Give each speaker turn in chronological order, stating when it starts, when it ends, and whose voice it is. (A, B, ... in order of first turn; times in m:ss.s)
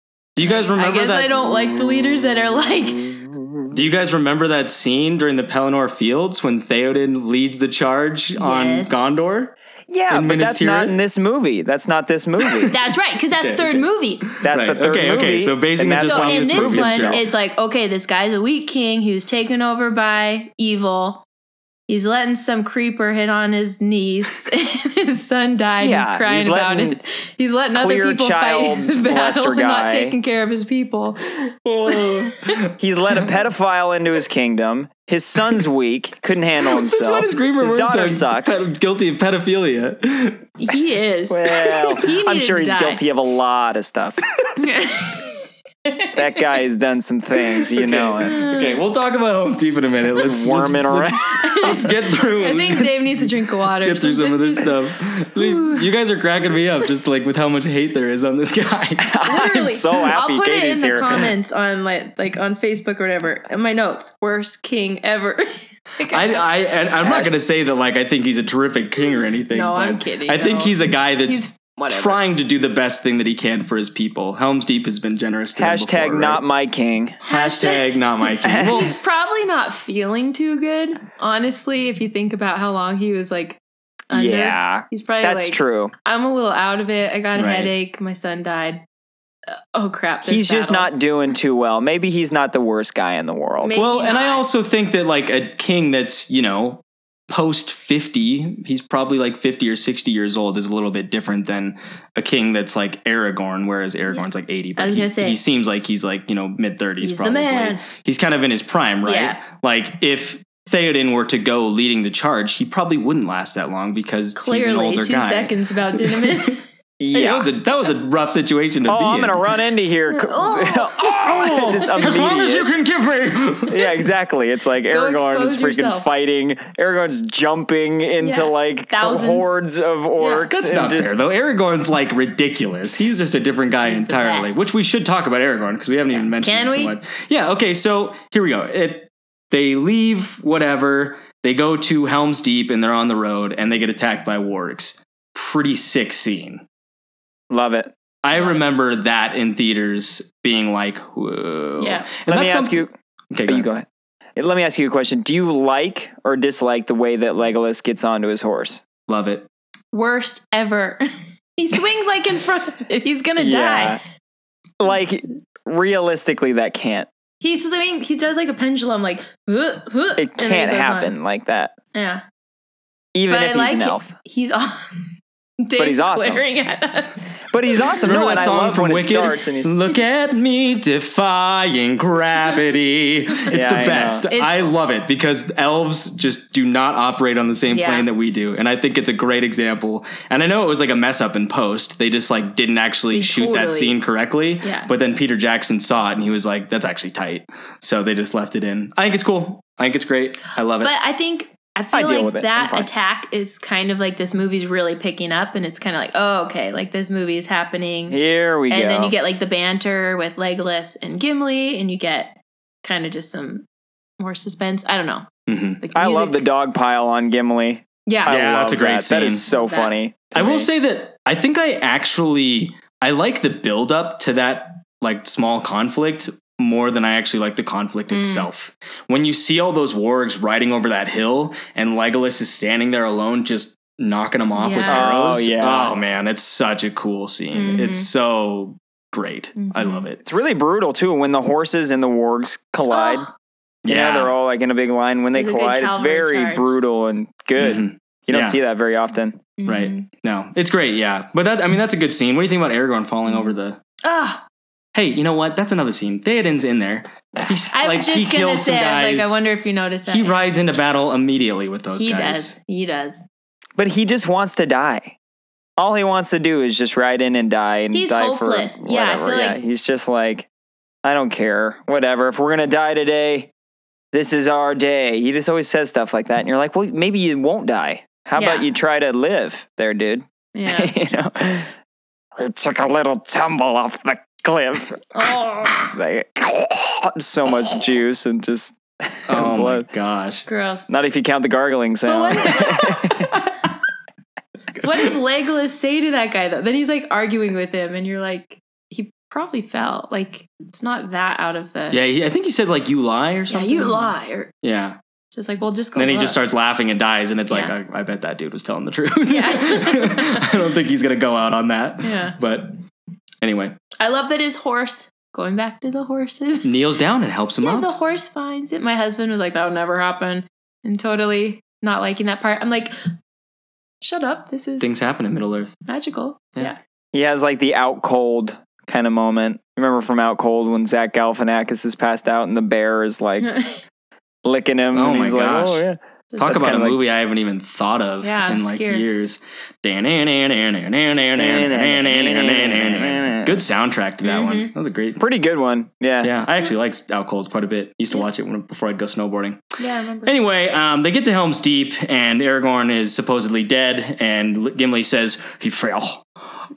0:00.4-0:01.5 A
0:00.4-0:03.2 B
0:03.1-0:03.7 C
0:03.7-0:09.5 A
0:08.4-0:09.0 B
0:09.9-0:12.7 C
0:10.1-0:11.0 A
0:12.7-0:14.3 B
0:13.4-0:17.2 A
0:14.4-0:17.2 C
0:16.0-0:21.2 B
0:21.9-0:32.6 B
0:25.8-0:27.0 C
0:27.7-0:30.2 C
0:31.6-0:33.2 A
0:32.8-0:38.6 C
0:36.6-0:40.5 A
0:40.6-0:43.0 B
0:41.3-0:44.2 C
0:44.6-0:46.4 B
0:46.1-0:48.4 C
0:47.7-0:53.3 A
0:48.2-0:48.8 B
0:50.2-0:51.2 C
0:51.3-0:54.8 B
0:53.8-0:59.1 A
0:55.4-0:55.9 B
0:59.0-1:01.3 C
0:59.2-1:06.4 B
1:06.1-1:16.4 A
1:07.0-1:07.3 C
1:09.5-1:12.2 B
1:15.6-1:17.2 C
1:17.2-1:18.9 A
1:17.3-1:28.8 B
1:18.4-1:18.9 C
1:24.1-1:25.9 C
1:27.3-1:27.7 A
1:29.5-1:30.9 B
1:30.2-1:33.8 C
1:33.6-1:34.4 B
1:33.7-1:56.5 A
1:44.8-1:45.4 B
1:47.0-1:47.8 B
1:49.0-1:49.4 B
1:54.4-1:56.6 B
1:57.0-1:57.5 C
1:57.1-1:59.4 A
1:58.9-2:02.7 C
2:00.1-2:02.2 B
2:01.2-2:03.8 A
2:03.7-2:11.2 C
2:04.9-2:06.1 B
2:08.2-2:09.5 B
2:10.2-2:10.5 B
2:10.5-2:26.6 A
2:13.8-2:14.7 B
2:16.1-2:17.0 B
2:27.5-2:27.9 C
2:28.2-2:33.7 A
2:28.3-2:28.6 B
2:31.8-2:32.1 B
2:32.3-2:32.9 C
2:33.5-2:38.8 C
2:39.1-2:39.5 A
2:39.9-2:41.0 B
2:41.6-2:44.0 B
2:43.4-2:44.0 C
2:44.8-2:47.1 C
2:47.4-2:51.1 B
2:50.2-2:51.7 C
2:51.9-2:52.2 B
2:53.1-2:54.1 C
2:53.3-2:55.1 B
2:55.6-2:57.4 B
2:55.8-2:56.4 C
2:57.5-2:59.7 C
2:58.0-3:20.9 A
3:03.5-3:04.2 C
3:04.3-3:04.7 B
3:07.7-3:08.1 B
3:13.1-3:14.0 B
3:14.6-3:14.9 B
3:20.8-3:33.6 B
3:21.9-3:22.9 C
3:28.1-3:29.1 C
3:34.2-3:35.3 B
3:35.5-3:35.8 A
3:35.8-3:36.4 B
3:35.9-3:40.7 C
3:38.1-3:38.4 B
3:38.2-3:39.4 A
3:39.4-3:39.9 B
3:40.3-4:00.2 A
3:48.1-3:48.5 B
3:54.5-3:55.1 B
3:54.9-3:56.0 C
3:57.5-3:58.1 B
3:59.6-4:00.0 B
4:00.2-4:03.3 C
4:02.9-4:03.3 B
4:03.8-4:04.3 A
4:03.9-4:09.4 C
4:05.3-4:06.8 B
4:07.6-4:08.6 A
4:09.6-4:10.0 B
4:09.6-4:13.8 A
4:13.3-4:14.4 B
4:14.9-4:19.4 A
4:17.7-4:20.4 B
4:20.1-4:22.5 A
4:22.0-4:23.2 B
4:23.8-4:25.2 C
4:25.8-4:30.5 C
4:27.9-4:29.6 B
4:31.0-4:33.5 C
4:34.1-4:41.7 C
4:38.4-4:38.7 B
4:40.5-4:40.9 B
4:42.4-4:49.9 C
4:45.1-4:45.9 B
4:49.3-4:50.4 A
4:50.5-4:50.9 B
4:50.9-4:53.4 C
4:52.0-4:53.3 B
4:54.6-4:55.1 A
4:54.8-5:02.0 B
5:01.9-5:05.0 A
5:03.5-5:04.5 B
5:05.3-5:06.4 B
5:05.9-5:12.7 A
5:09.3-5:10.5 B
5:12.0-5:12.4 B
5:13.4-5:13.8 A
5:14.0-5:16.7 B
5:16.6-5:17.9 A
5:17.6-5:22.9 B
5:24.0-5:24.9 B
5:24.8-5:25.7 A
5:25.9-5:26.8 B
5:27.1-5:33.5 C
5:33.4-5:33.8 B
5:34.4-5:37.0 C
5:34.9-5:35.8 A
5:36.4-5:45.2 A
5:38.2-5:39.0 B
5:41.4-5:43.6 C
5:44.2-5:44.7 B
5:45.2-5:46.3 C
5:46.2-5:49.6 A
5:49.8-5:50.3 B
5:50.2-5:56.3 A